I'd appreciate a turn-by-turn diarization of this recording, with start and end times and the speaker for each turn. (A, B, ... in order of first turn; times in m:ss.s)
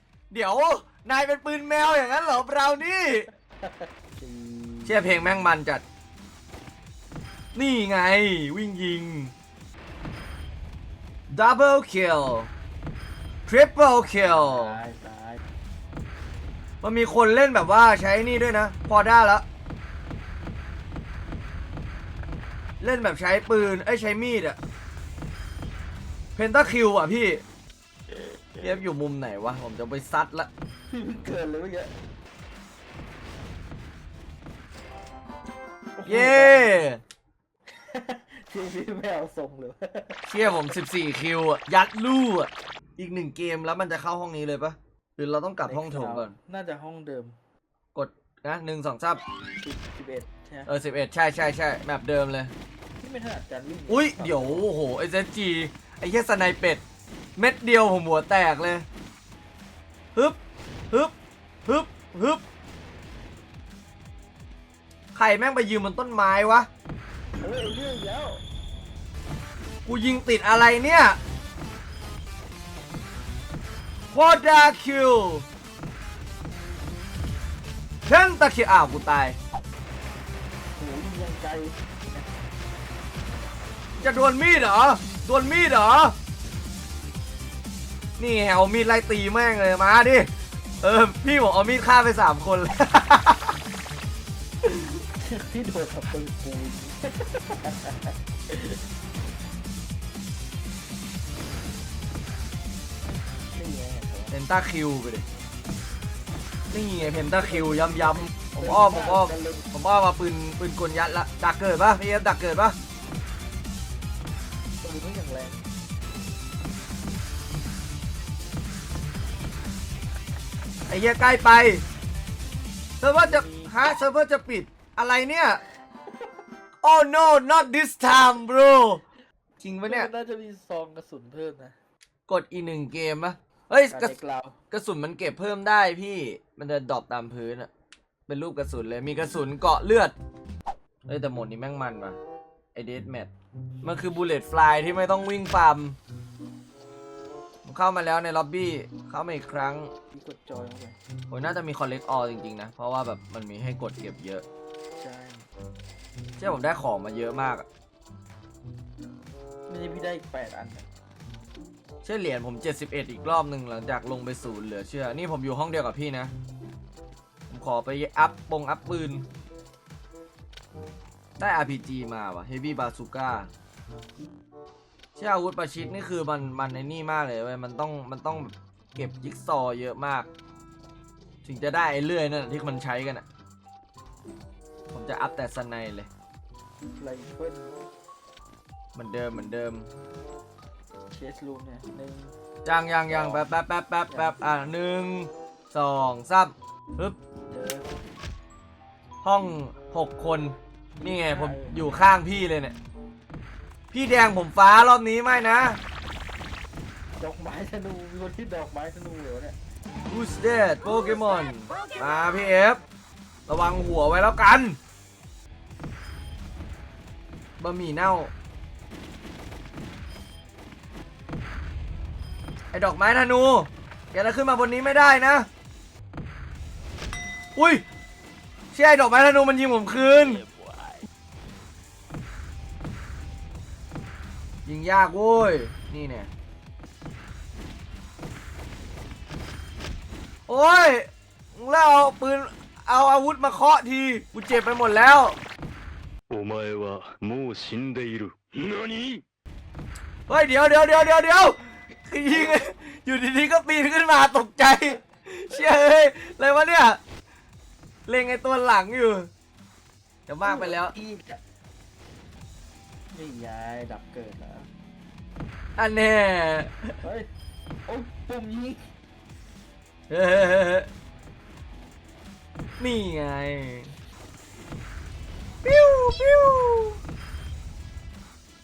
0:00.3-0:03.3 A
0:03.6-0:05.4 B
0:04.9-0:05.8 A
0:07.6-0:09.3 A
0:11.3-0:12.5 A
0:13.5-0:14.8 A
0:14.1-0:15.4 B
0:16.8-0:19.4 A
0:22.8-0:24.6 A
0:26.4-0:27.4 A
0:28.6-0:30.5 A
0:30.9-0:31.9 B
0:36.0-0:36.7 B
0:36.1-0:37.0 A
0:37.7-0:40.5 B
0:40.3-0:46.4 A
0:45.6-0:47.4 B
0:47.9-0:49.2 A
0:49.6-0:50.7 B
0:50.7-0:52.5 A
0:53.0-0:54.7 B
0:53.9-0:56.8 A
0:57.4-0:58.8 A
1:01.7-1:02.4 A
1:05.1-1:06.7 A
1:07.4-1:08.4 B
1:09.8-1:11.2 A
1:14.1-1:15.4 A
1:18.1-1:19.4 A
1:20.8-1:22.3 B
1:24.0-1:26.2 A
1:28.2-1:30.3 A
1:30.8-1:33.6 A
1:34.6-1:38.8 B
1:43.5-1:44.4 B
1:44.3-1:45.3 A
1:46.7-1:52.8 A
1:46.9-1:49.7 B
1:54.8-1:55.6 B
2:00.9-2:01.8 A
2:03.0-2:05.6 A
2:03.2-2:03.8 B
2:06.8-2:09.0 A
2:09.6-2:10.1 A
2:09.9-2:11.8 B
2:12.3-2:14.2 A
2:13.9-2:14.6 B
2:14.7-2:17.7 A
2:18.3-2:20.1 A
2:21.1-2:22.2 A
2:22.8-2:23.3 A
2:23.8-2:26.0 A
2:27.6-2:29.9 A
2:30.1-2:31.0 B
2:31.3-2:34.4 A
2:35.0-2:35.5 B
2:36.4-2:37.7 A
2:39.7-2:40.9 B
2:42.0-2:46.3 A
2:47.5-2:49.2 A
2:51.4-2:53.5 A
2:55.2-3:00.3 A
3:01.4-3:03.2 A
3:04.9-3:06.1 A
3:07.0-3:07.8 B
3:09.0-3:09.9 A
3:11.1-3:12.3 B
3:12.6-3:17.2 A
3:13.1-3:13.4 B
3:14.1-3:14.4 B
3:17.5-3:17.9 B
3:19.2-3:22.8 A
3:21.0-3:21.9 B
3:23.9-3:25.8 A
3:27.2-3:29.6 B
3:30.1-3:32.8 A
3:33.5-3:34.8 A
3:37.6-3:38.3 A
3:42.7-3:45.5 A
3:47.6-3:47.8 A
3:48.7-3:50.4 A
3:54.7-3:56.3 A
4:00.5-4:05.4 A
4:06.3-4:09.2 C
4:10.3-4:17.0 A
4:18.1-4:19.3 A
4:20.3-4:20.9 A
4:20.4-4:21.4 B
4:23.1-4:24.7 B
4:25.8-4:27.0 A
4:27.0-4:27.3 B
4:27.9-4:28.8 B
4:30.1-4:30.9 A
4:32.8-4:33.9 A
4:35.6-4:37.0 A